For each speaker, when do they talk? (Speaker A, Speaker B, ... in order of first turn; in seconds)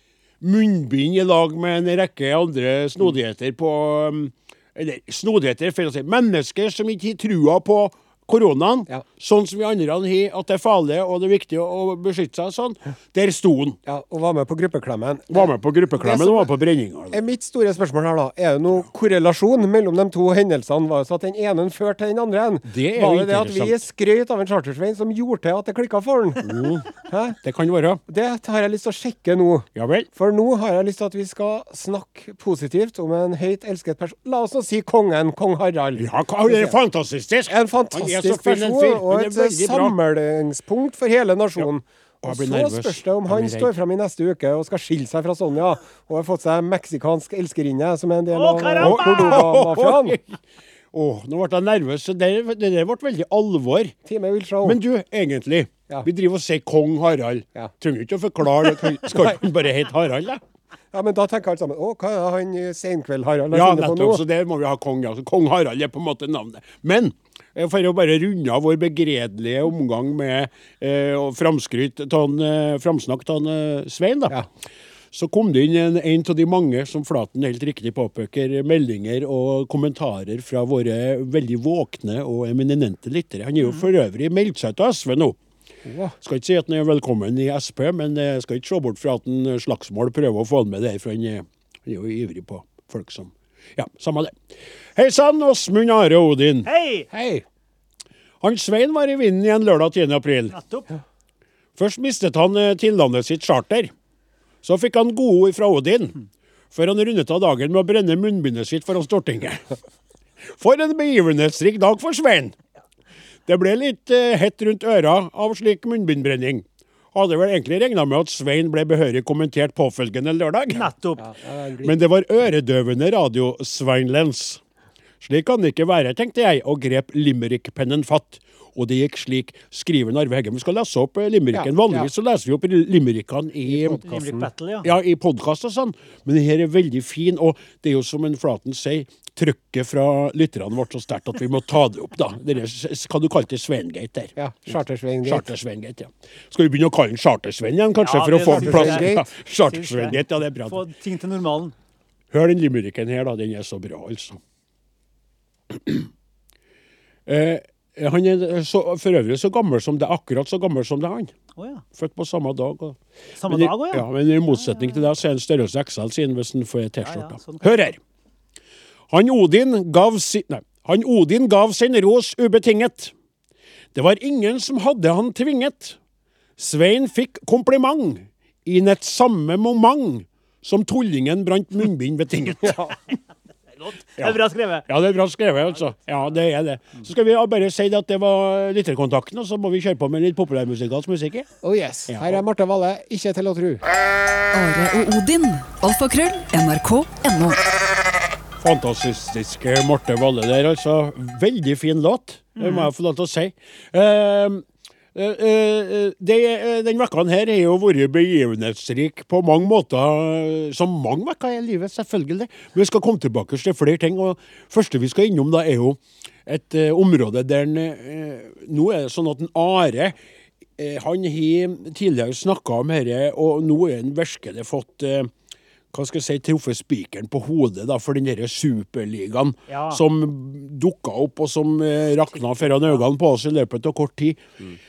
Speaker A: 0.4-13.8, 15.3-17.2, 22.6-23.8, 26.4-26.9, 27.4-28.0, 29.7-30.1, 36.0-40.0, 42.2-43.8, 48.8-50.4, 50.9-53.9, 54.6-60.4, 63.5-74.4, 75.1-85.4, 86.2-94.4, 95.0-96.7, 98.4-100.6, 101.8-103.9, 104.6-106.2, 106.7-109.6, 110.5-112.5, 113.5-120.9, 121.8-124.6, 125.2-134.0, 134.8-150.8, 152.3-154.4, 155.7-156.1, 157.3-161.3, 161.9-168.0, 169.1-173.1, 173.9-176.0, 176.6-182.8, 184.2-191.5, 192.1-192.4, 198.6-220.2, 220.8-225.3, 225.9-234.4
Speaker B: 13.8-16.5, 17.1-26.4, 27.0-27.4, 28.1-36.8, 37.5-50.2, 54.0-54.8, 58.8-59.4, 60.9-64.2, 85.8-86.1, 97.1-97.4, 121.2-122.0, 131.5-132.1, 133.7-134.5, 144.4-145.5, 148.5-149.3, 182.6-182.9, 191.6-193.8
Speaker C: 48.3-49.5, 96.6-97.1, 100.5-100.9, 120.7-121.2, 134.0-134.9, 148.0-151.7, 161.6-161.8, 163.4-165.0, 167.0-167.8, 183.8-184.9, 202.6-202.9, 229.7-230.0, 232.6-233.0
Speaker D: 194.5-197.6